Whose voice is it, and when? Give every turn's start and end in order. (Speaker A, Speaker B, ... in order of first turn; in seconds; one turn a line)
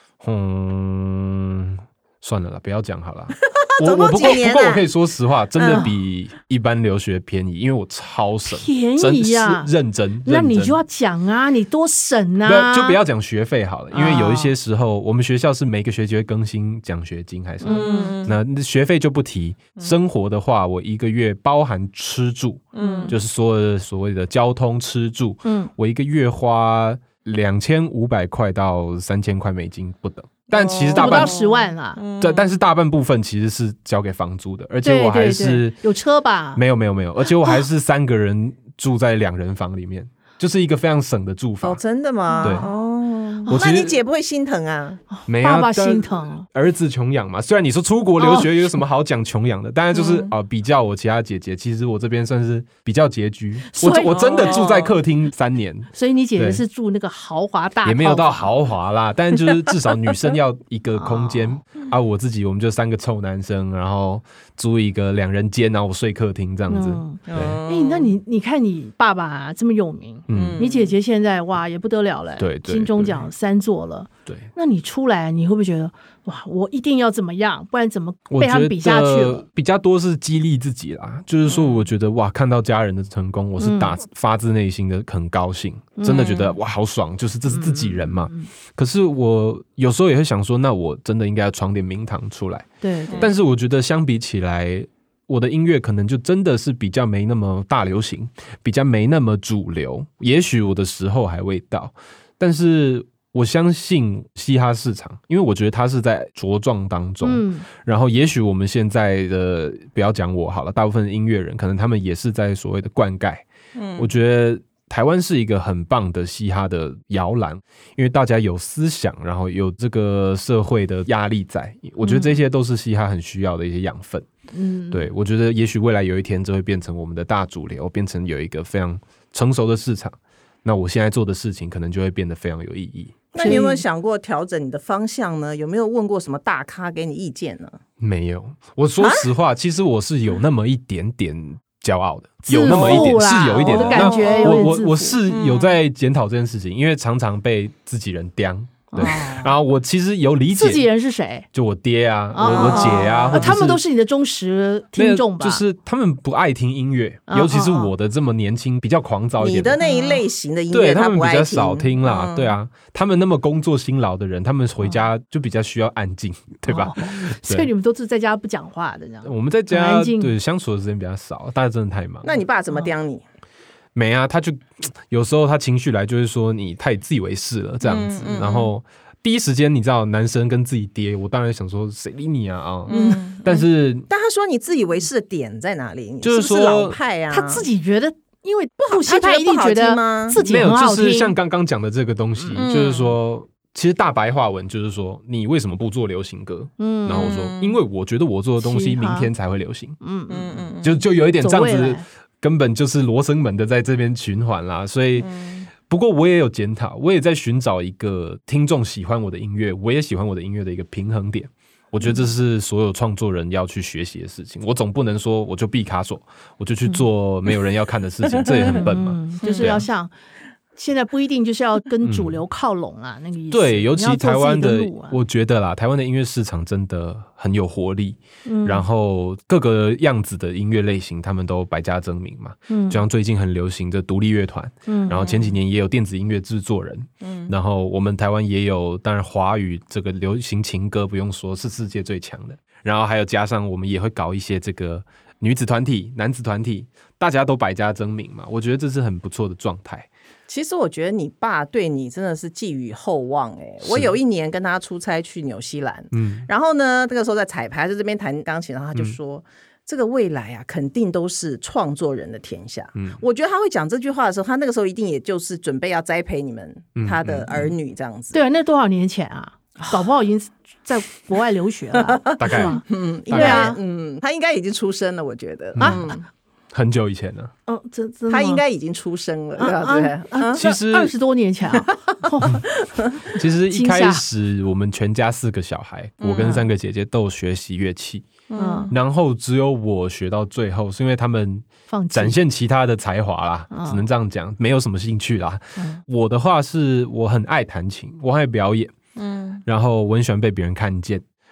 Speaker A: 0.2-10.8
Speaker B: 3.6-4.9
Speaker B: 5.5-5.9
Speaker C: 8.5-9.7
Speaker C: 10.2-13.0
Speaker A: 12.4-31.3
Speaker C: 13.9-14.5
Speaker B: 14.0-14.2
Speaker C: 17.6-18.2
Speaker B: 17.6-18.4
Speaker B: 22.7-23.1
Speaker C: 22.8-23.1
Speaker C: 25.4-25.7
Speaker B: 30.5-32.6
Speaker C: 30.9-32.0
Speaker A: 32.2-35.8
Speaker C: 34.8-36.6
Speaker A: 36.5-41.8
Speaker B: 41.6-45.0
Speaker C: 42.3-42.7
Speaker A: 43.5-44.0
Speaker C: 45.1-46.5
Speaker A: 45.3-56.6
Speaker C: 48.2-48.5
Speaker B: 49.9-50.3
Speaker C: 53.7-54.7
Speaker B: 54.0-54.9
Speaker C: 55.9-58.5
Speaker A: 57.8-67.6
Speaker C: 60.9-61.6
Speaker C: 66.7-79.4
Speaker B: 67.3-68.1
Speaker A: 70.3-70.6
Speaker B: 70.3-70.9
Speaker A: 72.4-73.3
Speaker A: 78.3-113.5
Speaker C: 83.6-83.9
Speaker C: 86.0-86.4
Speaker B: 86.1-86.5
Speaker C: 87.5-88.5
Speaker C: 92.8-93.3
Speaker C: 107.2-107.7
Speaker B: 113.7-114.1
Speaker A: 114.0-124.3
Speaker C: 122.0-122.4
Speaker C: 124.5-125.1
Speaker A: 124.9-133.7
Speaker B: 133.3-137.8
Speaker C: 133.4-133.8
Speaker A: 138.0-150.9
Speaker B: 139.0-139.3
Speaker C: 142.4-145.2
Speaker B: 142.7-144.7
Speaker B: 145.3-145.8
Speaker C: 148.9-149.6
Speaker C: 150.5-151.5
Speaker A: 151.5-153.8
Speaker C: 152.3-155.6
Speaker B: 152.4-153.5
Speaker A: 154.9-159.8
Speaker C: 157.3-157.9
Speaker B: 159.4-162.5
Speaker C: 159.8-160.2
Speaker A: 160.7-167.7
Speaker C: 166.7-170.3
Speaker A: 169.2-172.4
Speaker B: 172.2-173.2
Speaker A: 173.9-184.1
Speaker B: 177.8-178.7
Speaker B: 182.9-187.7
Speaker C: 182.9-183.2
Speaker A: 186.2-187.0
Speaker C: 187.3-191.3
Speaker B: 188.8-190.4
Speaker A: 190.4-200.0
Speaker C: 192.4-192.6
Speaker B: 192.5-193.2
Speaker C: 196.8-197.4
Speaker B: 197.1-197.8
Speaker C: 198.6-199.3
Speaker C: 200.0-200.6
Speaker B: 200.3-201.0
Speaker A: 200.8-219.8
Speaker C: 201.4-202.0
Speaker B: 205.2-205.7
Speaker B: 218.4-218.8
Speaker C: 218.7-220.1
Speaker B: 219.4-219.8
Speaker C: 220.7-225.2
Speaker A: 222.0-222.4
Speaker A: 223.5-250.1
Speaker C: 228.4-228.8
Speaker C: 232.7-233.0
Speaker C: 234.9-235.3
Speaker B: 235.2-235.6
Speaker B: 237.2-237.5
Speaker B: 250.5-268.4
Speaker A: 253.8-254.1
Speaker A: 256.1-256.5
Speaker A: 266.9-267.7
Speaker C: 268.3-273.8
Speaker B: 271.9-276.2
Speaker A: 272.4-273.8
Speaker A: 275.7-276.0
Speaker C: 275.8-276.1
Speaker A: 276.7-277.5
Speaker C: 277.7-278.6
Speaker B: 278.3-280.6
Speaker C: 279.6-282.7
Speaker A: 280.5-281.1
Speaker A: 283.3-288.3
Speaker C: 283.7-284.2
Speaker B: 286.2-286.6
Speaker B: 288.5-288.9
Speaker C: 288.6-288.9
Speaker A: 288.9-298.9
Speaker C: 291.9-292.4
Speaker C: 293.7-294.0
Speaker B: 299.1-299.6
Speaker A: 299.6-301.2